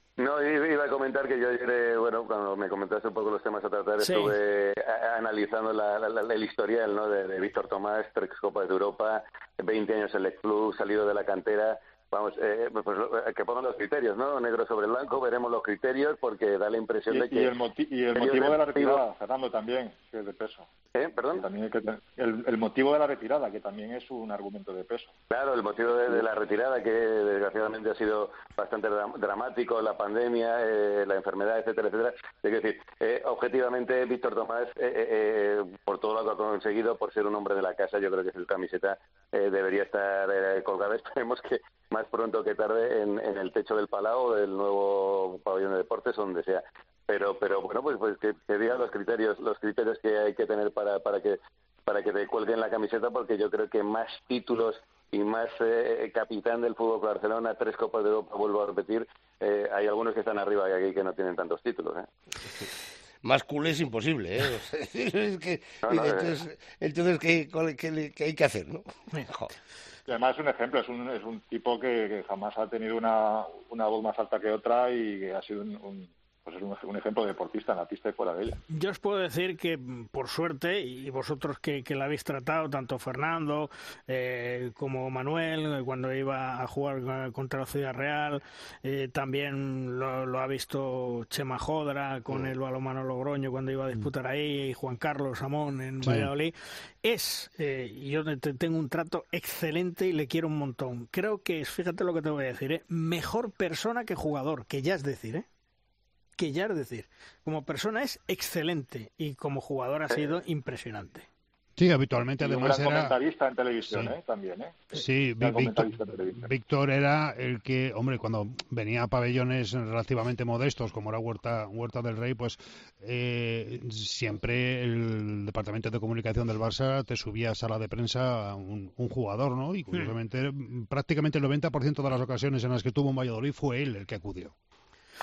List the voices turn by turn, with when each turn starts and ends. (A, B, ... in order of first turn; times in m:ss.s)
0:00.2-0:17.6 A
0:04.0-0:04.3 B
0:17.1-0:20.7 C
0:18.2-0:19.0 A
0:20.9-0:21.5 A
0:21.3-0:25.1 C
0:25.3-1:02.1 A
1:03.2-1:09.5 D
1:05.8-1:06.3 A
1:10.1-1:18.6 C
1:18.7-1:45.4 B
1:36.0-1:36.3 E
1:46.4-1:51.3 B
1:51.8-1:53.2 E
1:52.4-1:56.5 C
1:53.9-1:54.1 E
1:54.9-2:14.5 E